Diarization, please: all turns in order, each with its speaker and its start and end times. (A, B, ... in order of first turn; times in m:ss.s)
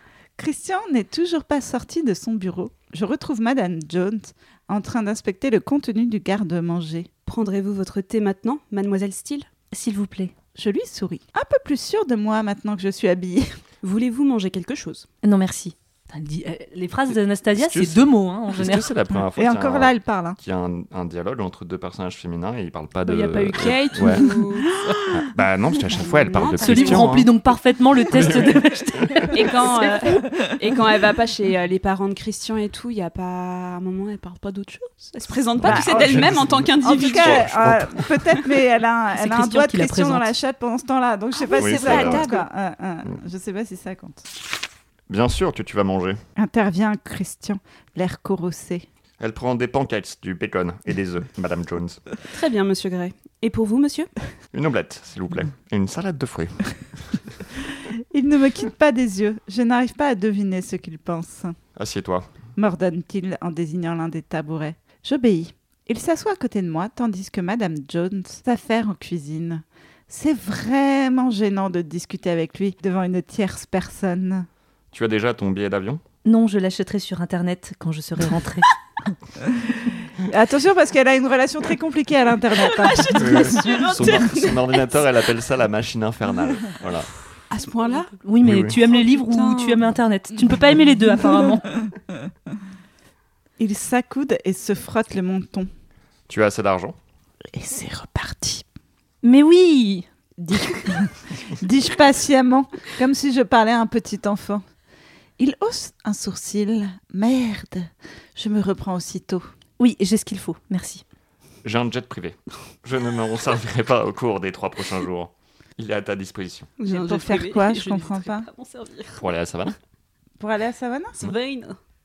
0:00.4-0:07.1 A
0:07.2-0:09.5 B
0:09.7-0:10.3 C
0:10.5-0:13.5 A
0:13.8-0:15.1 B
0:15.2-0:18.9 C
0:17.6-0:24.3 D
0:19.2-0:20.4 A
0:23.0-0:24.7 B
0:24.2-0:25.3 A
0:25.1-0:27.3 D
0:25.9-0:26.4 A
0:26.2-0:27.2 B
0:26.6-0:30.2 C
0:28.1-0:29.3 D
0:29.3-0:37.5 B
0:35.6-0:38.4 D
0:35.6-0:44.2 A
0:39.2-0:40.3 C
0:41.4-0:42.4 B
0:41.6-0:42.2 D
0:45.1-0:46.2 D
0:46.4-0:48.9 A
0:49.2-0:52.0 D
0:52.3-0:54.1 B
0:54.5-0:57.2 D
0:58.1-1:01.6 A
1:01.8-1:02.3 D
1:02.6-1:14.5 A
1:14.9-1:16.0 D
1:16.2-1:18.7 C
1:20.2-1:23.9 A
1:22.6-1:25.1 B
1:23.1-1:27.3 D
1:27.5-1:28.1 B
1:28.2-1:31.7 C
1:28.4-1:28.8 D
1:28.9-1:29.9 B
1:33.6-1:35.7 A
1:36.3-1:37.0 D
1:37.5-1:38.6 A
1:39.2-1:40.0 C
1:40.4-1:44.6 A
1:45.4-1:49.5 A
1:49.8-1:51.0 C
1:51.6-1:56.7 D
1:56.8-1:59.3 B
1:56.8-1:58.5 A
1:59.2-1:59.8 D
2:00.4-2:01.2 A
2:01.2-2:01.8 B